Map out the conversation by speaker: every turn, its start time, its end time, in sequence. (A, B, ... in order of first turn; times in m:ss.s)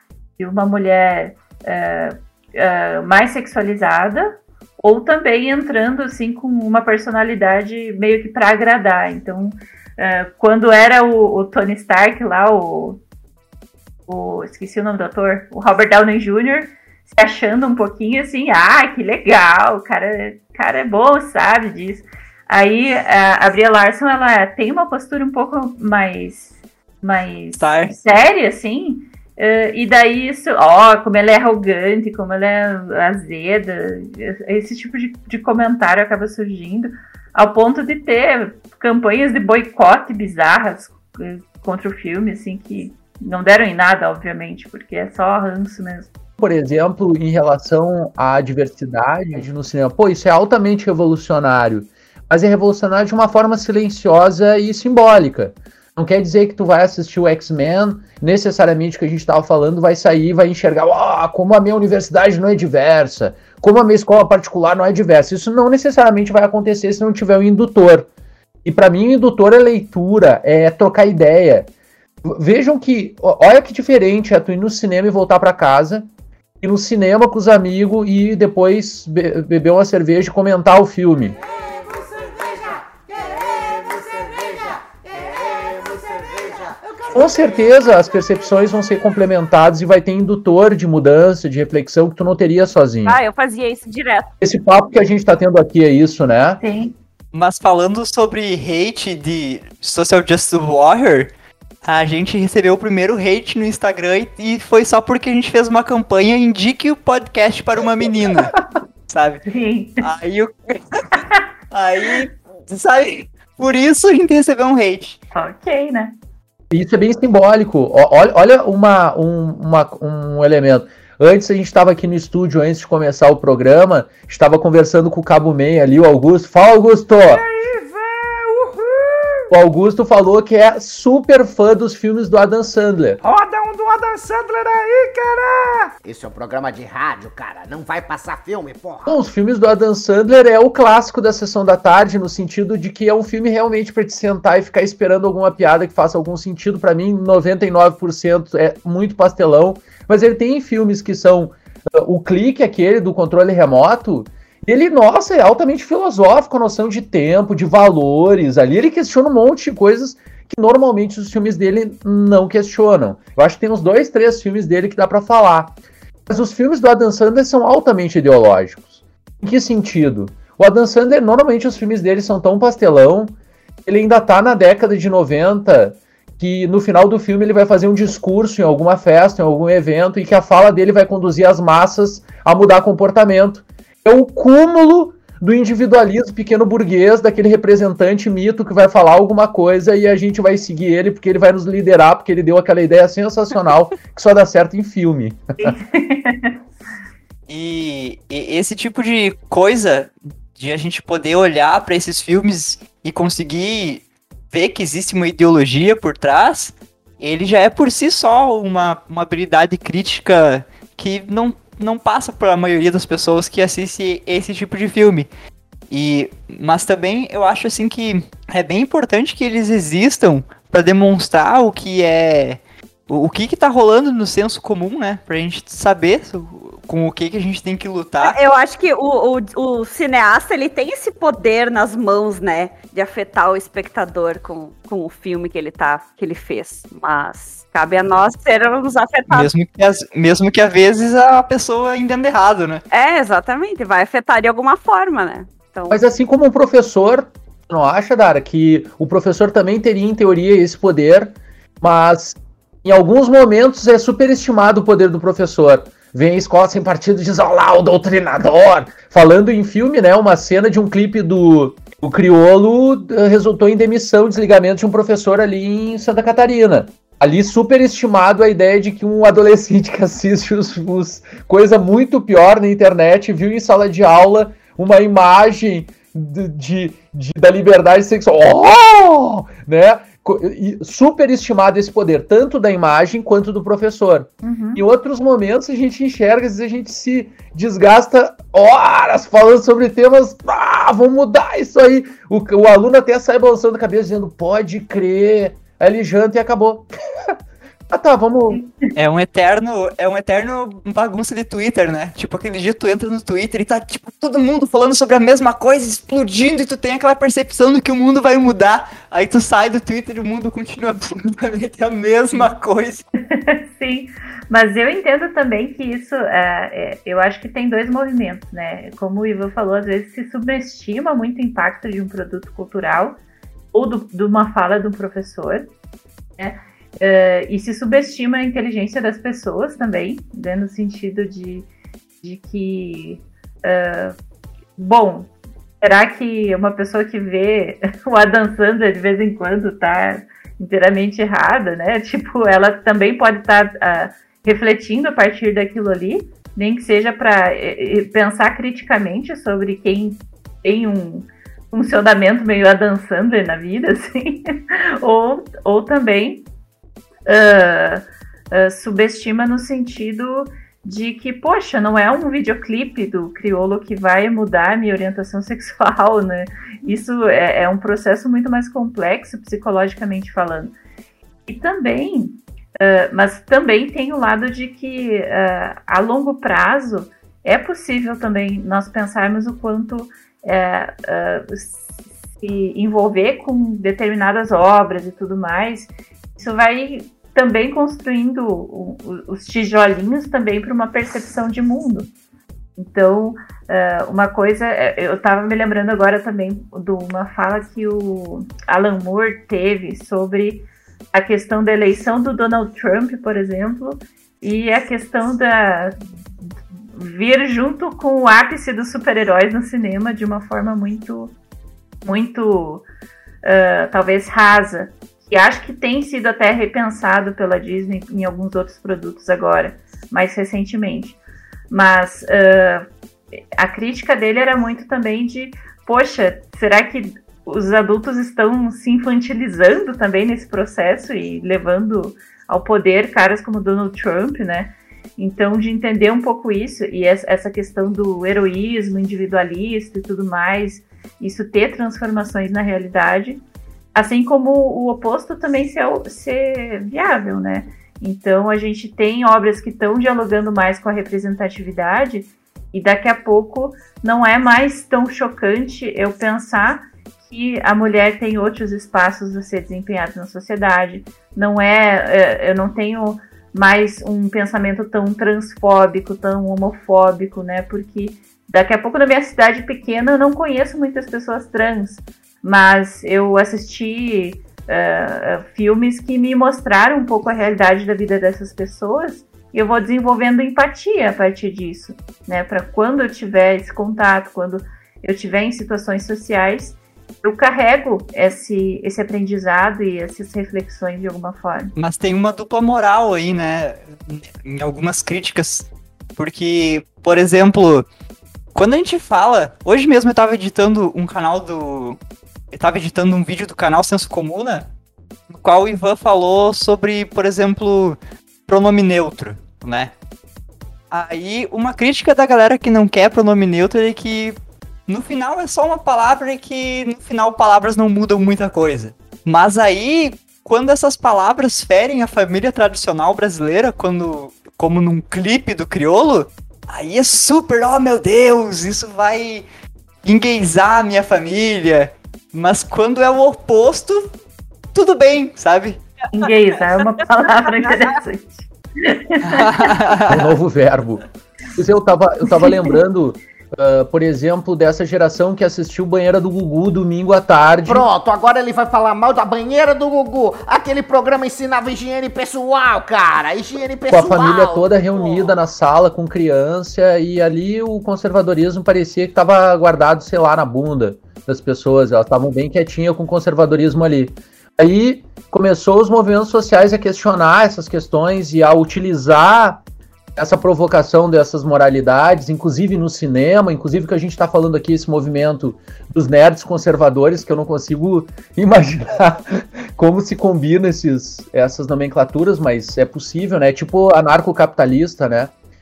0:00.4-0:13.0 A
0:14.1-0:46.1 A
0:27.6-0:28.0 B
0:46.4-1:08.1 C
1:08.6-1:11.7 C
1:12.2-1:16.1 C
1:16.6-1:21.4 C
1:22.1-1:24.6 D
1:25.5-1:27.0 D
1:27.1-1:33.2 C
1:33.0-1:34.3 E
1:34.4-1:36.6 C
1:36.6-1:37.0 A
1:37.3-1:41.3 B
1:41.8-1:48.5 B
1:49.1-1:49.4 B
1:49.5-1:50.1 A
1:50.0-1:55.2 B
1:55.4-1:56.1 A
1:56.7-2:07.4 C
2:07.2-2:09.2 D
2:09.5-2:13.2 C
2:13.2-2:15.9 D
2:16.0-2:19.2 F
2:19.1-2:45.8 C
2:46.3-3:15.5 C
3:15.6-3:16.6 A
3:17.5-3:35.3 B
3:35.9-3:48.4 B
3:48.2-3:59.5 E
3:59.3-4:02.8 B
4:02.9-4:06.0 E
4:05.9-4:56.9 C
4:44.4-4:44.8 A
4:57.9-4:58.6 C
4:58.5-4:58.8 A
4:59.0-5:13.1 B
5:13.3-5:23.2 A
5:23.7-5:25.7 A
5:26.4-5:31.7 A
5:32.2-5:34.2 A
5:34.8-5:35.3 A
5:35.8-5:56.5 A
5:57.3-6:10.7 A
6:11.5-6:32.1 A
6:32.8-6:46.0 A
6:46.9-6:51.4 A
6:52.0-6:52.8 A
6:53.4-7:01.2 A
7:01.7-7:02.9 A
7:03.6-7:23.4 A
7:23.9-8:11.7 A
8:11.8-8:17.8 B
8:18.6-8:22.0 B
8:22.5-8:24.7 B
8:25.3-8:29.9 B
8:30.9-8:49.4 B
8:50.0-8:54.1 B
8:54.7-8:57.9 B
8:56.1-8:59.7 A
8:59.2-9:00.3 B
9:00.1-9:01.0 C
9:01.6-9:07.9 C
9:07.7-9:15.4 F
9:13.9-9:29.6 C
9:30.2-9:45.3 C